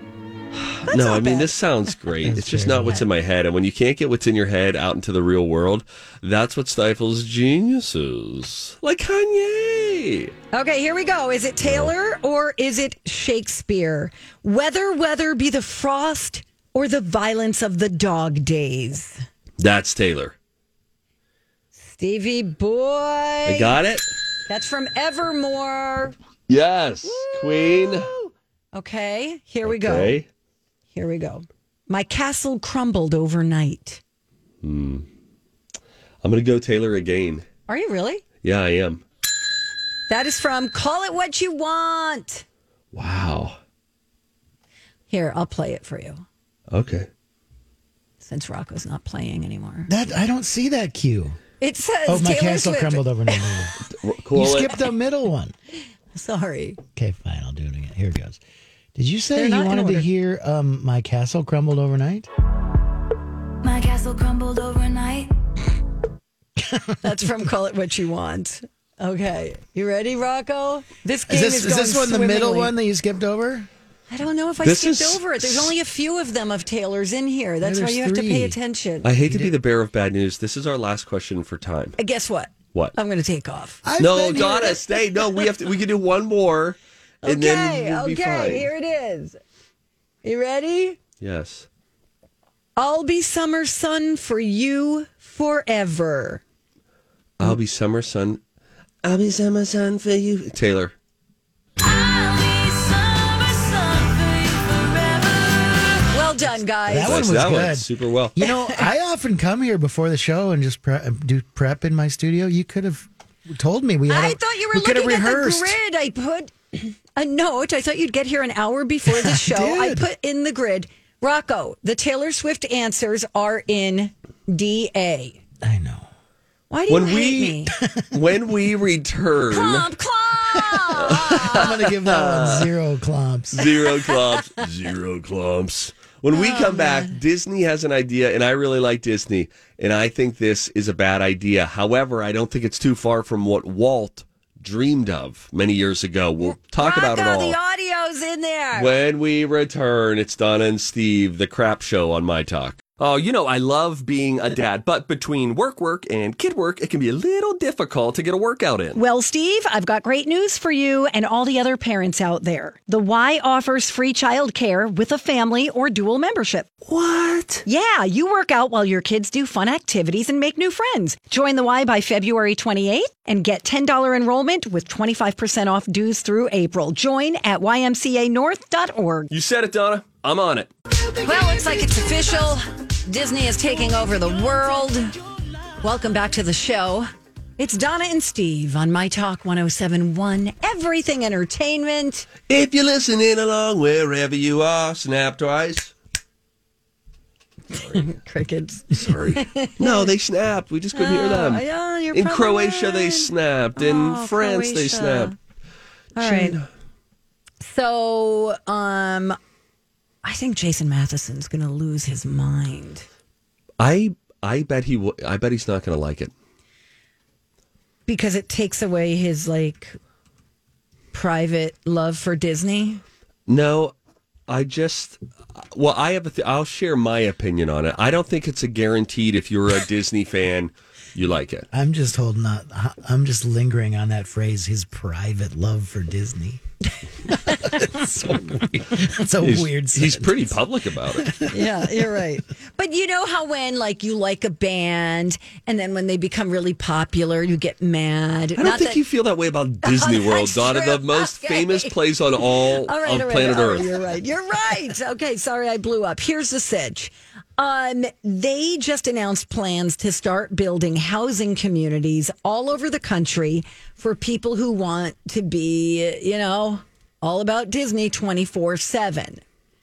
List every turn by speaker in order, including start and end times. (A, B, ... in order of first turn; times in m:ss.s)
0:00.6-0:10.3 A
0:00.8-0:01.5 B
0:02.2-0:03.0 C
0:10.5-0:19.2 B
0:11.6-0:11.9 A
0:19.6-0:20.4 A
0:21.8-0:23.8 B
0:23.5-0:24.1 A
0:24.5-0:26.2 B
0:26.5-0:28.1 A
0:27.0-0:30.2 B
0:29.6-0:30.3 A
0:30.9-0:34.0 B
0:34.6-0:35.1 A
0:36.2-0:37.4 A
0:37.7-0:38.2 B
0:38.4-0:39.0 A
0:40.1-0:42.4 B
0:42.9-0:43.6 A
0:45.1-0:46.2 B
0:46.7-0:47.1 A
0:48.2-0:49.9 B
0:49.9-0:51.4 C
0:51.6-0:53.7 B
0:52.1-0:53.8 C
0:54.0-0:54.7 A
0:54.3-0:55.5 C
0:56.1-0:56.8 B
0:57.0-0:58.4 C
0:59.0-1:02.3 C
0:59.3-1:00.1 B
1:03.6-1:05.3 D
1:06.6-1:07.0 C
1:07.0-1:12.7 B
1:11.3-1:13.7 C
1:14.1-1:19.1 B
1:14.6-1:15.7 A
1:17.6-1:18.6 C
1:19.0-1:22.0 A
1:19.2-1:19.6 C
1:22.0-1:23.8 B
1:23.8-1:24.8 C
1:24.0-1:28.7 A
1:24.4-1:24.7 B
1:27.2-1:29.4 B
1:30.2-1:31.0 B
1:31.2-1:31.7 A
1:32.8-1:36.4 B
1:37.4-1:38.4 A
1:39.0-1:40.9 A
1:41.8-1:46.1 D
1:46.1-1:47.3 B
1:46.9-1:55.8 C
1:47.0-1:48.4 A
1:48.4-1:48.9 B
1:54.1-2:05.4 B
1:59.1-2:00.1 C
2:05.6-2:06.1 C
2:06.7-2:07.7 B
2:06.9-2:07.6 A
2:08.1-2:09.9 A
2:09.5-2:11.7 B
2:10.6-2:13.7 C
2:11.0-2:12.7 A
2:13.5-2:27.6 A
2:13.9-2:14.4 B
2:16.3-2:17.2 B
2:26.5-2:29.0 B
2:28.8-2:39.0 A
2:39.0-2:46.7 B
2:46.9-2:47.6 A
2:47.7-2:59.3 B
2:59.3-3:00.7 A
3:01.0-3:02.5 C
3:01.2-3:05.1 B
3:05.8-3:12.3 B
3:12.5-3:15.9 A
3:17.7-3:20.1 B
3:17.8-3:18.0 A
3:18.9-3:25.3 A
3:20.9-3:25.4 B
3:26.2-3:26.6 B
3:26.2-3:26.7 A
3:27.6-3:29.4 B
3:30.2-3:33.1 B
3:33.8-3:36.3 A
3:38.1-3:40.0 B
3:41.1-3:43.0 B
3:43.5-3:43.9 A
3:44.5-3:45.2 A
3:45.7-3:51.7 A
3:51.7-3:56.6 C
3:57.3-3:57.8 B
3:57.3-4:00.6 C
3:59.4-4:01.4 A
4:01.1-4:02.2 C
4:01.5-4:09.0 B
4:08.6-4:14.0 A
4:09.8-4:12.0 B
4:12.9-4:29.4 B